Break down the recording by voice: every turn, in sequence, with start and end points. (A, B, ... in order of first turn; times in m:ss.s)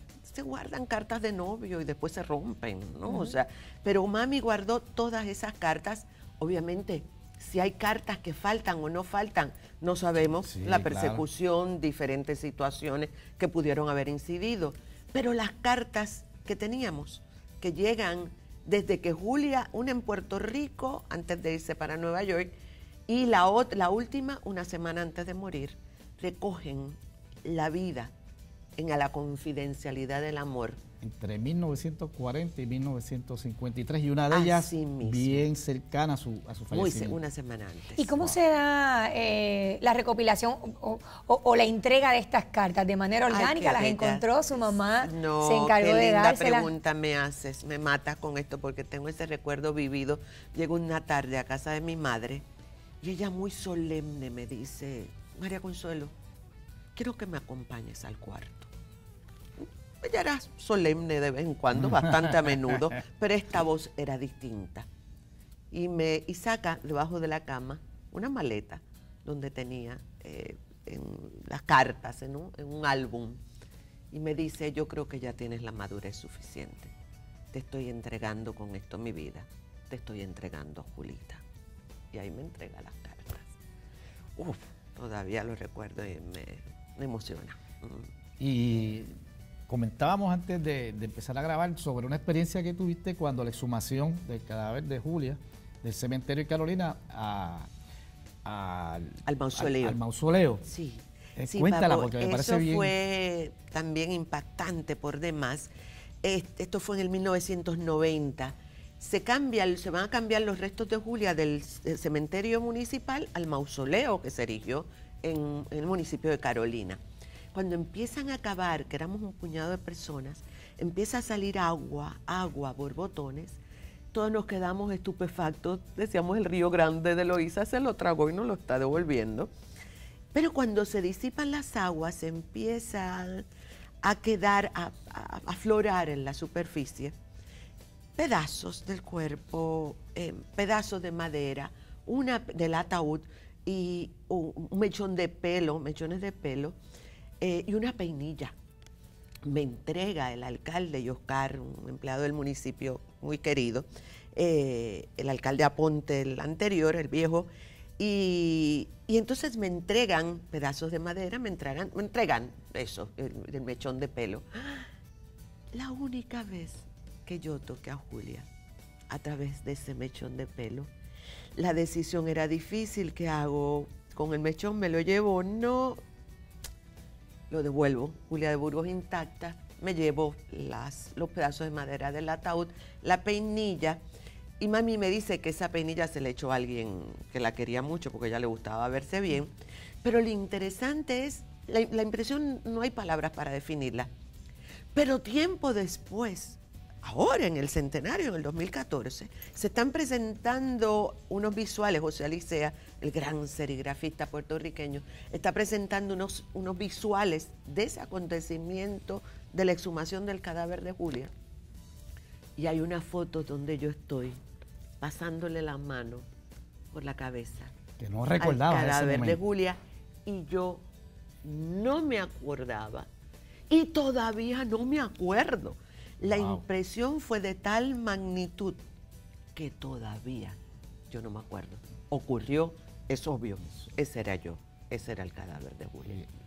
0:00.2-0:22.5 A
0:10.3-0:11.2 B
0:23.1-0:28.1 A
0:28.8-0:30.8 A
0:31.0-0:37.2 B
0:34.3-0:35.5 A
0:36.7-0:38.1 A
0:38.0-0:46.7 C
0:43.3-0:44.3 A
0:45.0-0:52.4 A
0:53.0-0:56.1 A
0:56.9-0:58.7 A
1:00.0-1:04.9 A
1:01.8-1:02.5 B
1:05.7-1:13.4 A
1:14.1-1:16.9 A
1:17.5-1:21.4 A
1:22.1-1:23.6 A
1:24.4-1:28.1 A
1:28.4-1:29.1 B
1:29.7-1:37.7 B
1:38.4-1:40.6 B
1:39.2-1:40.0 A
1:40.6-1:45.7 A
1:41.4-1:42.9 B
1:46.2-1:57.0 A
1:57.5-2:03.6 A
2:04.1-2:09.5 A
2:10.3-2:13.4 A
2:14.0-2:17.1 A
2:18.2-2:26.8 A
2:27.4-2:28.5 A
2:29.4-2:44.9 A
2:45.7-2:48.5 A
2:49.1-2:50.9 A
2:51.6-2:56.0 A
2:57.5-3:04.0 A
3:04.6-3:14.1 A
3:14.9-3:31.3 A
3:32.6-3:34.4 A
3:35.0-3:36.2 A
3:36.9-3:37.7 A
3:38.0-3:39.4 B
3:38.4-3:40.8 A
3:41.4-3:43.1 A
3:43.7-3:48.8 A
3:46.3-3:46.6 B
3:49.6-3:50.6 A
3:51.1-3:56.2 A